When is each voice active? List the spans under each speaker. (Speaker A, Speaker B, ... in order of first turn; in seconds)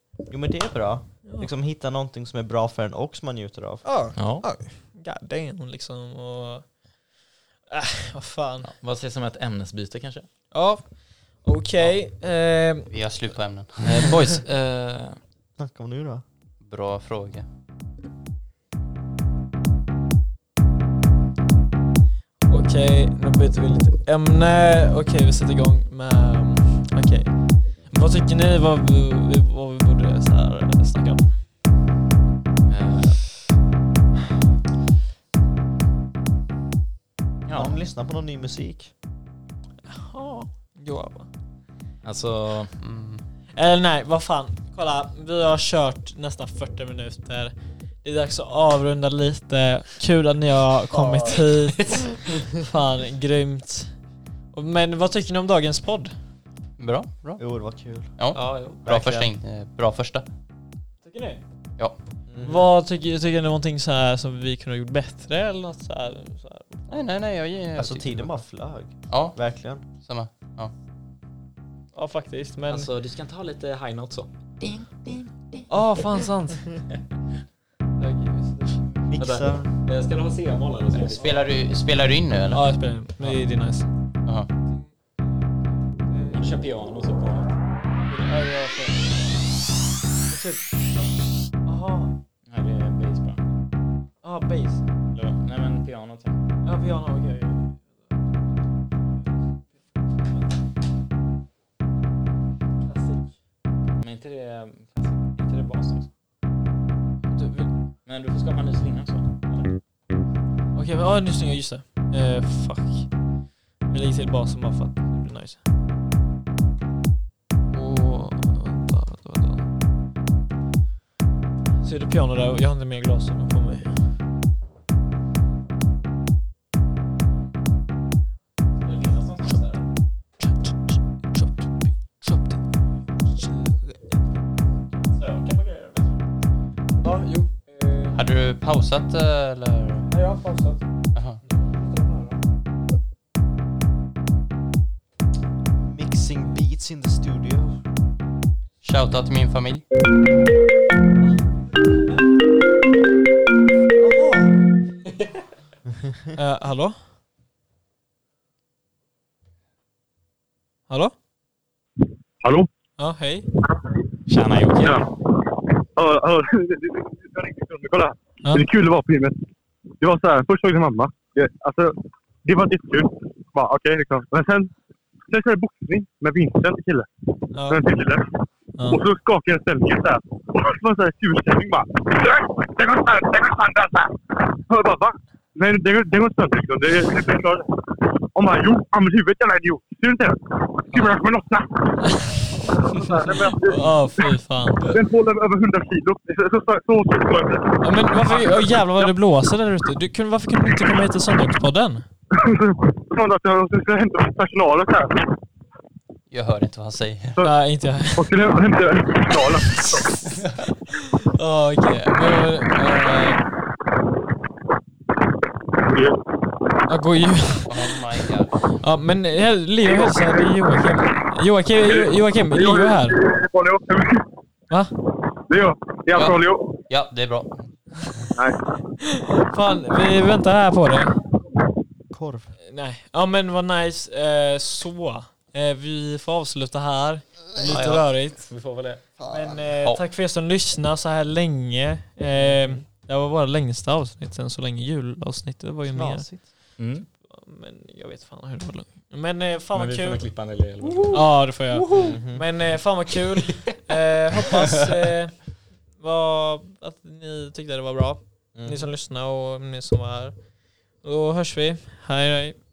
Speaker A: 0.3-3.8, 15.6-16.2, 37.5-38.9, 57.4-58.1, 58.8-59.3, 62.3-62.7, 67.8-69.8, 79.1-79.7, 145.7-147.8, 232.1-232.5, 239.2-239.6, 242.4-242.8, 245.9-246.5, 251.9-252.4, 258.5-258.9
Speaker B: 3.8-6.7, 7.7-8.7, 10.5-12.9, 22.5-27.3, 27.9-31.3, 39.9-41.3, 43.5-53.9, 54.5-56.1, 61.0-61.4, 62.4-66.8, 71.9-72.9, 75.7-76.7, 78.0-78.8, 82.5-83.9, 86.0-86.5, 88.1-89.3, 90.3-91.1, 91.6-92.1, 94.2-94.8, 96.6-97.8, 102.8-103.2, 107.3-107.7, 110.7-113.1, 113.9-115.6, 117.7-119.7, 121.8-123.9, 131.3-132.6, 133.2-134.2, 137.0-138.3, 140.1-140.8, 141.5-142.4, 154.0-154.5, 156.3-157.0, 160.9-161.1, 163.0-163.5, 177.5-177.8, 178.8-179.0, 192.0-192.4, 193.5-195.0, 197.8-202.1, 207.4-208.4, 211.0-213.4, 216.9-217.9, 218.8-223.2, 229.0-231.2, 232.7-238.5, 239.2-246.3, 247.2-250.2, 251.1-260.3, 261.0-262.6
Speaker C: 4.2-4.4, 8.6-10.3, 13.8-15.2, 32.7-33.3, 37.5-37.7, 42.0-42.7, 50.9-52.0, 58.3-58.9, 72.7-74.3, 79.2-81.3, 86.3-87.5, 92.5-93.4, 95.1-96.4, 104.0-106.1, 108.0-109.7, 128.8-129.9, 135.1-136.2, 164.3-165.1, 237.6-239.0, 246.8-247.1, 249.7-251.2, 253.5-253.8, 254.4-254.8
Speaker D: 12.9-14.2, 16.6-17.4, 42.8-43.2, 56.8-57.4, 58.1-60.2, 66.9-68.2, 69.1-70.7, 74.8-75.2, 81.1-82.6, 138.1-140.1, 141.1-141.4, 148.8-149.8, 206.3-207.4, 217.7-218.6, 226.1-228.2, 237.7-238.0
Speaker E: 162.4-162.7, 163.6-164.0, 164.8-169.4, 170.0-174.7, 175.3-177.1, 177.7-199.1, 202.3-205.3, 208.2-210.3, 215.7-216.2, 219.8-220.6, 221.8-224.3, 225.5-226.8, 228.3-228.6